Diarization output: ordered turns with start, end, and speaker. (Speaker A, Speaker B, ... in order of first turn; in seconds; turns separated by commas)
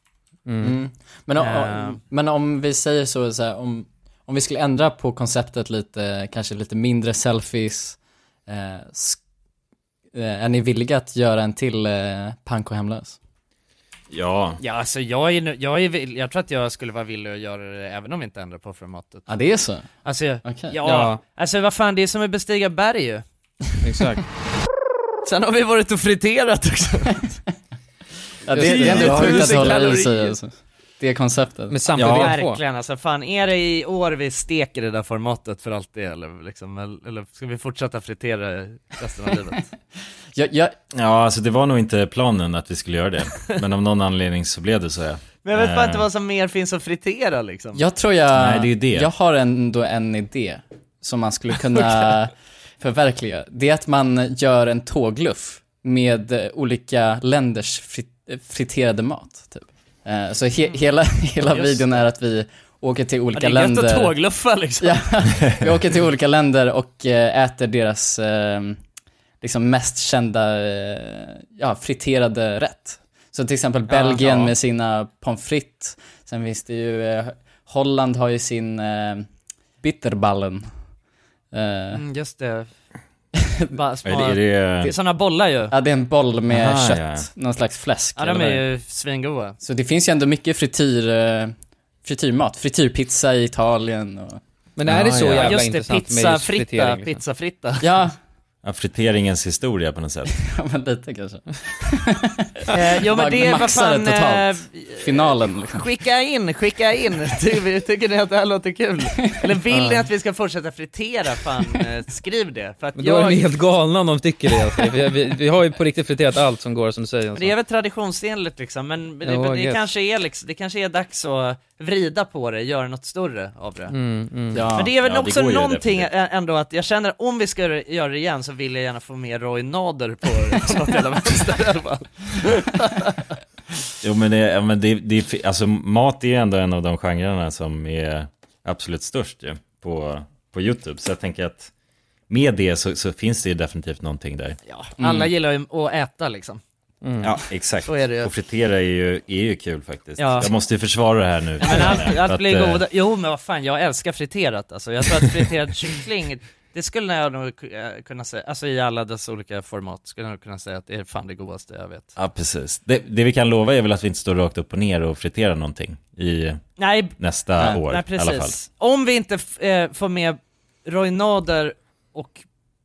Speaker A: 0.5-0.8, Speaker B: 0.6-9.2, Speaker C: 1.4-2.0, Speaker B: 10.1-13.2, Speaker D: 14.1-14.6, Speaker C: 14.6-19.3, Speaker B: 19.3-19.9, Speaker C: 20.0-23.2, Speaker B: 20.4-20.8, Speaker A: 20.8-21.2, Speaker A: 23.8-24.2, Speaker C: 25.2-27.3, Speaker B: 28.5-31.8, Speaker D: 28.5-29.9, Speaker C: 28.6-30.4, Speaker A: 31.7-32.6, Speaker D: 31.9-32.3, Speaker C: 32.0-39.6, Speaker B: 40.3-40.7, Speaker D: 40.9-46.1, Speaker C: 45.4-47.8, Speaker B: 47.7-64.2, Speaker D: 48.3-49.1, Speaker C: 61.4-61.8, Speaker C: 63.3-65.0, Speaker B: 64.8-68.8, Speaker B: 69.4-79.3, Speaker C: 73.9-74.5, Speaker B: 79.8-80.7, Speaker B: 81.5-82.0, Speaker C: 81.9-82.7, Speaker C: 83.7-85.7, Speaker D: 84.0-84.9, Speaker B: 85.7-88.6, Speaker D: 86.5-87.3, Speaker C: 88.2-89.6, Speaker B: 89.6-94.4, Speaker A: 94.8-97.2, Speaker D: 94.8-95.6, Speaker C: 95.3-97.8, Speaker B: 97.8-98.2, Speaker D: 98.6-100.3, Speaker B: 100.4-105.8, Speaker C: 102.7-113.5, Speaker A: 113.0-117.5, Speaker C: 117.3-123.9, Speaker A: 119.2-119.8, Speaker A: 123.9-124.7, Speaker B: 124.5-124.9, Speaker C: 124.8-133.2, Speaker D: 124.9-126.1, Speaker D: 134.0-141.7, Speaker D: 142.3-144.6, Speaker C: 144.7-146.6, Speaker B: 145.0-145.3, Speaker A: 147.0-147.3, Speaker D: 147.2-152.8, Speaker C: 147.8-148.3, Speaker C: 150.2-150.5, Speaker C: 151.6-162.1, Speaker D: 162.2-166.6, Speaker C: 166.8-167.2, Speaker D: 167.2-168.6, Speaker C: 167.8-172.4